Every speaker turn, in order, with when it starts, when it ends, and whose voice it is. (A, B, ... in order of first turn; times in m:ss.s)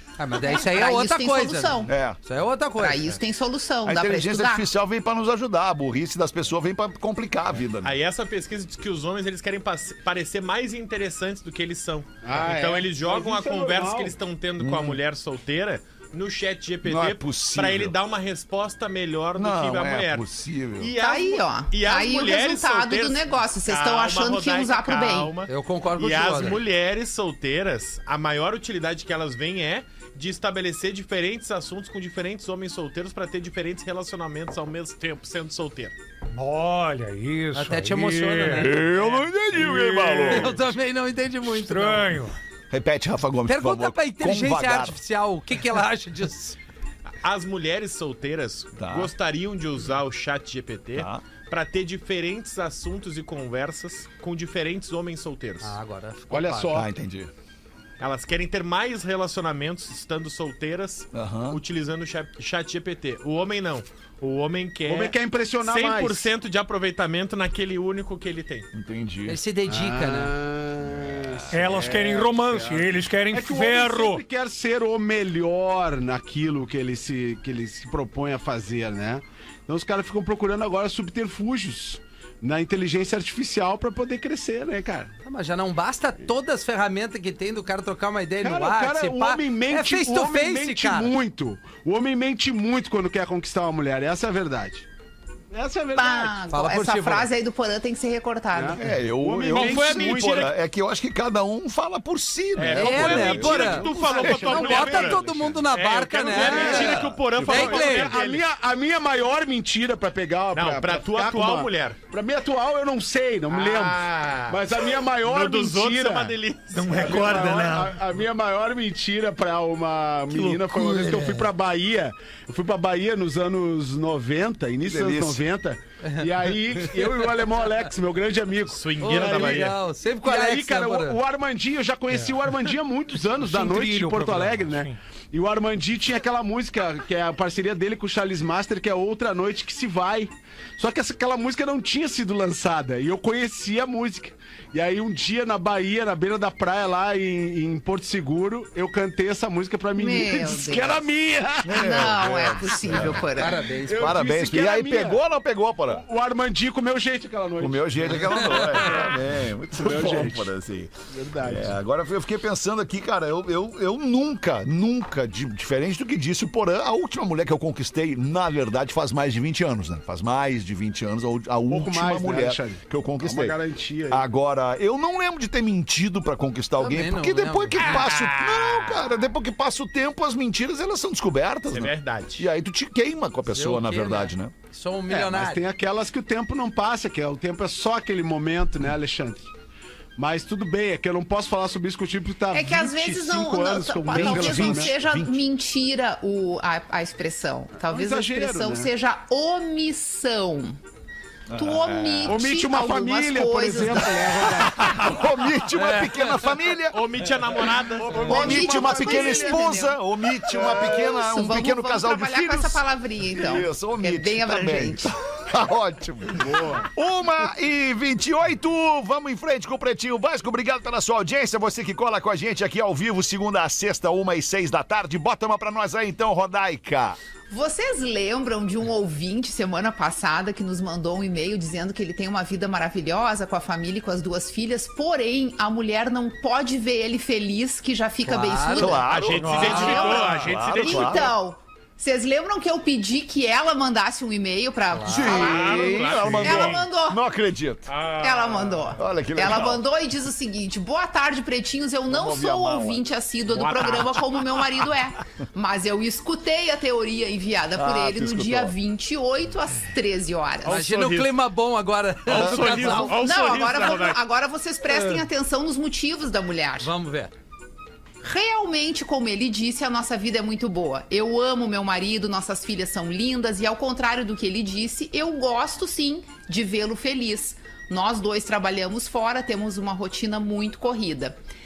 0:00.2-0:03.1 A
0:00.4-0:01.9 B
0:01.8-0:02.2 C
0:02.8-0:04.6 B
0:03.8-0:08.0 C
0:07.8-0:35.9 D
0:12.2-0:14.2 E
0:14.6-0:15.0 C
0:16.8-0:18.0 C
0:19.4-0:20.9 C
0:21.0-0:25.3 B
0:25.5-0:26.6 A
0:36.3-0:38.8 F
0:37.5-0:38.9 A
0:38.5-0:40.6 C
0:40.0-0:42.2 A
0:41.5-0:42.3 F
0:42.7-0:45.0 C
0:43.5-0:46.6 A
0:47.1-0:55.8 D
0:48.8-0:49.1 C
0:51.0-0:51.2 C
0:55.6-0:56.7 A
0:56.3-0:56.9 E
0:56.7-0:57.3 C
0:58.0-1:08.7 D
1:01.1-1:01.6 C
1:04.8-1:06.3 E
1:08.7-1:09.4 C
1:09.2-1:10.3 A
1:09.7-1:25.1 E
1:11.0-1:11.8 C
1:11.5-1:14.2 F
1:25.2-1:31.1 A
1:28.4-1:34.8 E
1:35.5-1:36.4 E
1:35.9-1:38.8 B
1:36.5-1:37.3 A
1:38.5-1:40.4 E
1:38.8-1:44.6 C
1:39.5-1:40.5 D
1:42.6-1:48.4 D
1:42.7-1:48.1 A
1:43.7-1:45.6 E
1:46.3-1:56.4 E
1:46.4-1:47.2 C
1:50.5-1:52.0 D
1:53.5-1:57.4 D
1:56.7-1:58.0 F
1:56.9-2:32.3 E
2:00.3-2:01.5 F
2:04.9-2:05.4 C
2:06.9-2:07.2 A
2:08.7-2:09.8 D
2:09.0-2:11.2 A
2:12.1-2:12.4 F
2:13.4-2:15.0 F
2:30.0-2:31.0 B
2:31.6-2:33.2 C
2:31.7-2:33.6 B
2:33.3-2:34.2 A
2:33.8-2:35.2 E
2:34.0-2:36.0 C
2:35.9-2:39.1 E
2:37.6-2:40.9 C
2:39.7-2:40.5 E
2:41.1-2:41.8 E
2:41.4-2:53.6 C
2:51.7-2:54.2 E
2:54.1-3:04.5 C
2:56.8-2:58.0 A
2:57.8-2:59.1 D
3:01.7-3:02.5 D
3:03.5-3:05.6 A
3:05.1-3:09.5 E
3:10.2-3:14.9 E
3:12.5-3:20.8 B
3:14.1-3:15.4 C
3:17.8-3:18.9 E
3:21.5-3:22.4 C
3:21.5-3:24.6 B
3:22.3-3:25.0 E
3:24.7-3:27.0 C
3:26.9-3:28.3 D
3:28.0-3:47.2 C
3:28.1-3:29.7 E
3:28.2-3:35.1 B
3:36.4-3:36.9 E
3:47.5-4:07.2 B
3:58.2-3:59.0 A
3:58.7-4:01.3 C
3:59.1-4:01.3 D
3:59.4-4:00.5 F
4:04.9-4:05.3 A
4:05.0-4:07.9 C
4:05.3-4:06.8 D
4:07.9-4:09.0 D
4:08.2-4:20.8 B
4:09.0-4:09.8 C
4:12.1-4:13.0 C
4:13.5-4:14.2 D
4:17.7-4:18.8 C
4:20.6-4:21.4 D
4:20.6-4:23.1 A
4:22.2-4:24.2 D
4:22.3-4:23.1 C
4:23.1-4:26.9 B
4:24.9-4:25.2 A
4:26.8-4:27.3 A
4:28.2-4:41.4 B